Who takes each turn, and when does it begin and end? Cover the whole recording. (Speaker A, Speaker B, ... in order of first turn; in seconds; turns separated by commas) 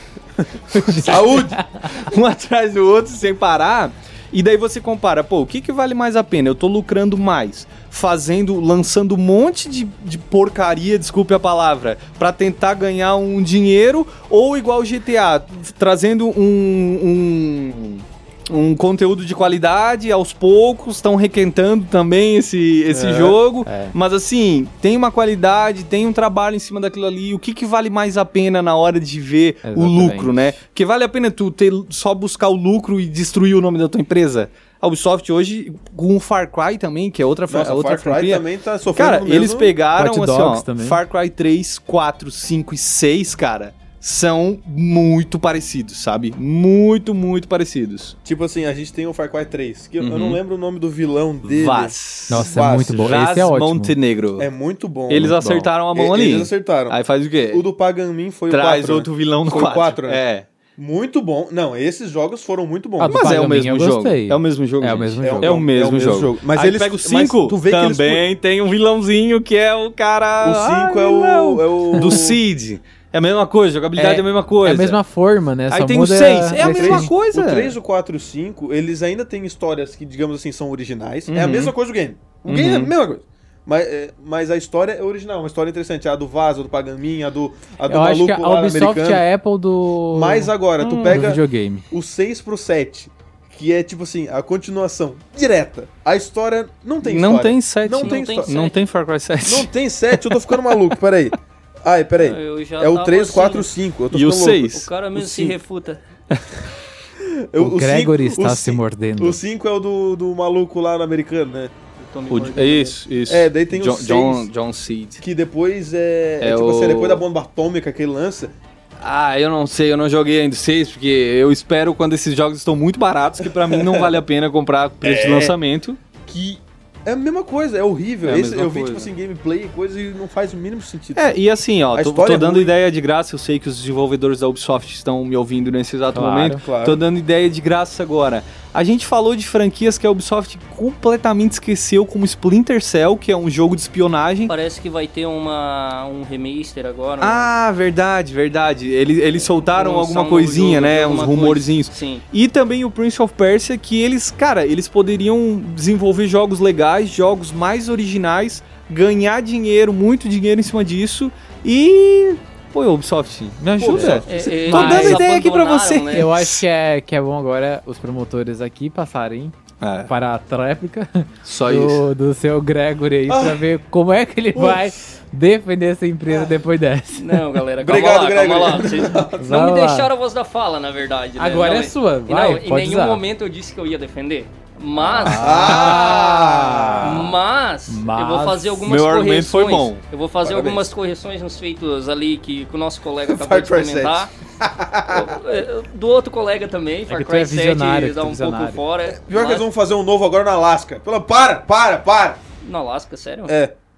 Speaker A: 0.7-1.9, Speaker B: 1.0-1.6, Speaker C: 1.9-38.5, Speaker B: 22.9-23.4, Speaker A: 23.6-23.9, Speaker A: 29.6-30.6, Speaker B: 37.5-39.8, Speaker C: 39.0-48.2, Speaker A: 40.0-41.0, Speaker B: 48.2-53.2, Speaker C: 50.0-50.4, Speaker C: 51.5-54.5, Speaker A: 52.3-54.0, Speaker B: 54.4-57.0, Speaker C: 55.1-57.6, Speaker B: 57.5-60.2, Speaker C: 58.5-60.5, Speaker B: 60.8-63.4, Speaker A: 63.0-65.6, Speaker C: 63.0-75.0, Speaker B: 65.2-68.2, Speaker B: 70.4-72.4, Speaker A: 71.9-72.2, Speaker A: 74.0-77.1, Speaker C: 75.7-77.8, Speaker B: 76.5-89.2, Speaker C: 81.3-81.7, Speaker C: 82.5-82.9, Speaker A: 87.9-91.8, Speaker B: 90.1-91.4, Speaker C: 90.8-91.3, Speaker B: 91.9-98.5, Speaker C: 97.0-100.9, Speaker D: 98.0-98.8, Speaker B: 99.5-104.7, Speaker D: 102.2-103.7, Speaker C: 104.1-105.6, Speaker D: 104.7-106.0, Speaker B: 107.5-111.7, Speaker A: 107.6-109.4, Speaker D: 112.0-113.0, Speaker C: 112.3-115.2, Speaker B: 113.3-114.5, Speaker B: 115.2-118.5, Speaker C: 116.4-117.2, Speaker C: 119.0-126.0, Speaker B: 123.7-124.2, Speaker B: 125.0-125.6, Speaker B: 126.3-131.4, Speaker C: 128.2-129.1, Speaker C: 131.2-144.5, Speaker B: 131.9-132.8, Speaker A: 136.1-136.6, Speaker B: 136.6-137.0, Speaker D: 144.5-147.5, Speaker C: 147.2-166.6, Speaker D: 149.7-152.2, Speaker D: 163.8-166.3, Speaker B: 163.8-164.7, Speaker A: 164.0-165.2, Speaker A: 166.1-169.6, Speaker C: 169.8-170.1, Speaker A: 170.1-177.4, Speaker C: 171.4-172.0, Speaker B: 173.3-173.6, Speaker B: 174.6-174.8, Speaker D: 177.1-186.3, Speaker B: 177.8-179.5, Speaker A: 179.4-180.1, Speaker A: 181.4-183.2, Speaker B: 185.2-187.3, Speaker A: 185.2-187.3, Speaker D: 187.0-194.3, Speaker A: 187.9-188.8, Speaker C: 188.8-190.0, Speaker B: 190.4-190.9, Speaker B: 193.3-195.3, Speaker D: 195.1-199.7, Speaker A: 197.1-198.8, Speaker B: 199.1-202.4, Speaker D: 202.6-203.6, Speaker B: 203.5-203.8